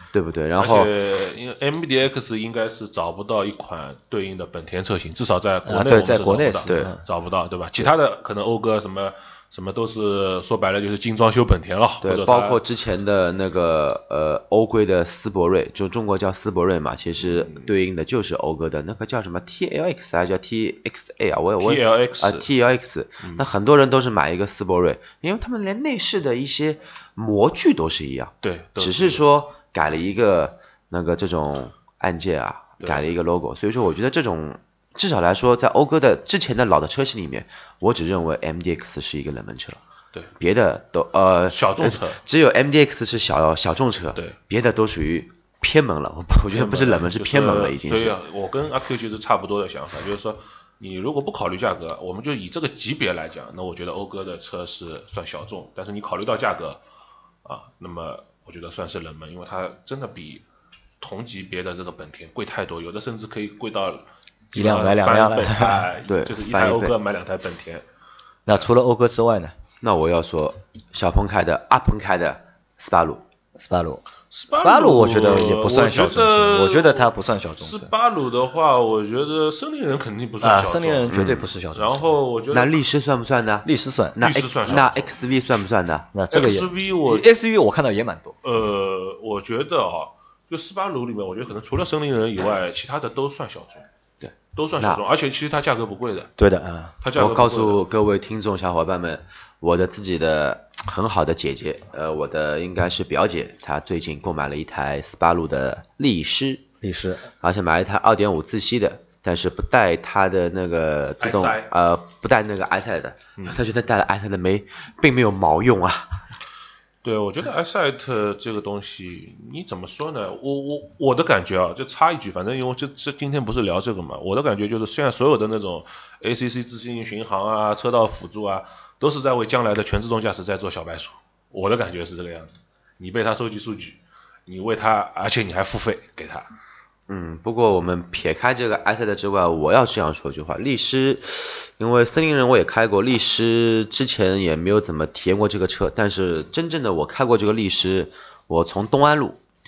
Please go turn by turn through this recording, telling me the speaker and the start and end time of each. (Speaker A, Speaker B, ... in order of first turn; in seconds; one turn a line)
Speaker A: 0.1-0.9
Speaker B: 0.6-12.6
Speaker C: 5.7-7.0
Speaker A: 6.7-6.9
Speaker A: 12.0-39.8
Speaker B: 17.2-17.7
Speaker B: 21.6-22.5
Speaker B: 28.4-29.2
Speaker B: 32.8-33.1
Speaker A: 40.4-48.2
Speaker B: 41.5-42.2
Speaker B: 46.5-56.8
Speaker B: 57.4-60.4
Speaker B: 61.0-67.8
Speaker C: 64.5-65.9
Speaker A: 66.1-66.9
Speaker C: 68.5-69.5
Speaker A: 69.8-73.2
Speaker C: 73.6-77.9
Speaker B: 74.3-81.2
Speaker C: 80.4-82.0
Speaker A: 81.1-81.5
Speaker B: 81.7-82.8
Speaker A: 82.5-86.1
Speaker C: 83.6-84.2
Speaker B: 84.2-85.2
Speaker C: 86.1-88.4
Speaker B: 86.3-87.3
Speaker B: 88.4-93.8
Speaker A: 94.2-95.0
Speaker B: 94.5-96.3
Speaker C: 96.4-96.9
Speaker B: 97.0-97.8
Speaker A: 97.1-106.6
Speaker C: 106.8-107.3
Speaker A: 107.4-116.3
Speaker B: 111.2-111.7
Speaker B: 117.0-136.5
Speaker A: 137.1-149.4